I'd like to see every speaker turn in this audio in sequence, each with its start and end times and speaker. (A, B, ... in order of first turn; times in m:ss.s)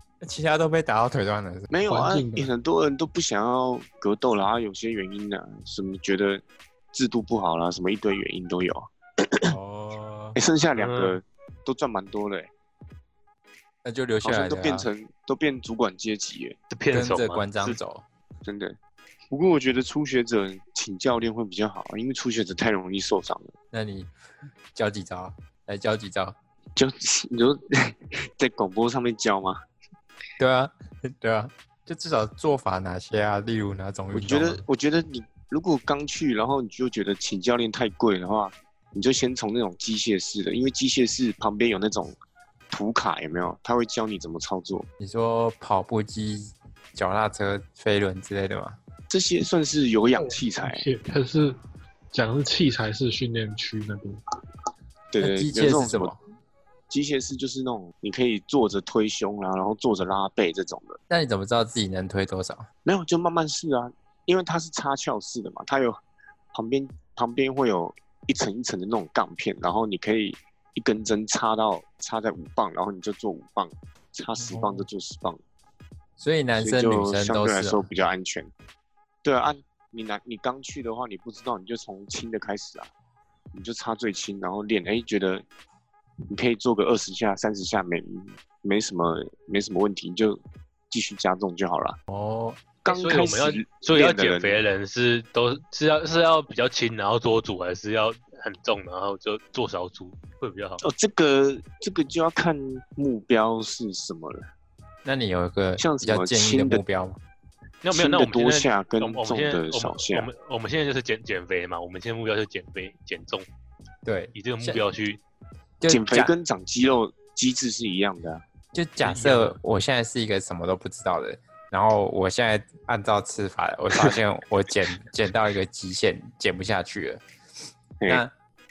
0:00.2-0:01.7 A
0:01.7-0:09.5 B
0:01.9-0:02.5 C
0:09.5-0:10.4 A
0:10.4-0:12.5 B
0:10.8-0:11.2 D
0:13.8-0:14.9 A
0:14.2-0:16.6 B
0:16.7-0:17.8 D
0:16.9-0:18.0 A
0:18.4-0:18.8 B
0:19.3-0:23.5 B
0:23.7-0:24.1 A
0:24.8-0:26.4 A
0:26.8-0:29.6 B
0:30.4-0:34.6 A
0:34.1-0:42.2 B
0:42.7-0:44.9 B
0:45.0-0:48.8 A
0:49.1-0:50.9 B
0:50.2-0:51.6 C
0:52.1-0:54.2 C
0:55.1-0:56.1 B
0:55.2-0:56.2 A
0:56.9-1:01.0 B
1:01.1-1:02.7 A
1:02.8-1:06.0 B
1:06.5-1:15.4 B
1:14.4-1:14.9 A
1:16.2-1:17.9 A
1:16.6-1:18.5 B
1:19.2-1:22.9 B
1:23.5-1:25.4 B
1:26.3-1:32.0 B
1:32.1-1:32.6 A
1:32.8-1:34.6 B
1:32.9-1:40.8 D
1:40.8-1:44.4 B
1:45.0-1:47.2 A
1:45.8-1:46.8 B
1:47.8-1:53.4 D
1:47.9-1:50.3 B
1:54.0-1:54.8 A
1:54.4-1:55.2 D
1:55.8-1:56.3 A
1:55.9-1:58.4 B
1:58.7-2:07.2 A
1:59.0-1:59.6 D
2:08.1-2:08.3 A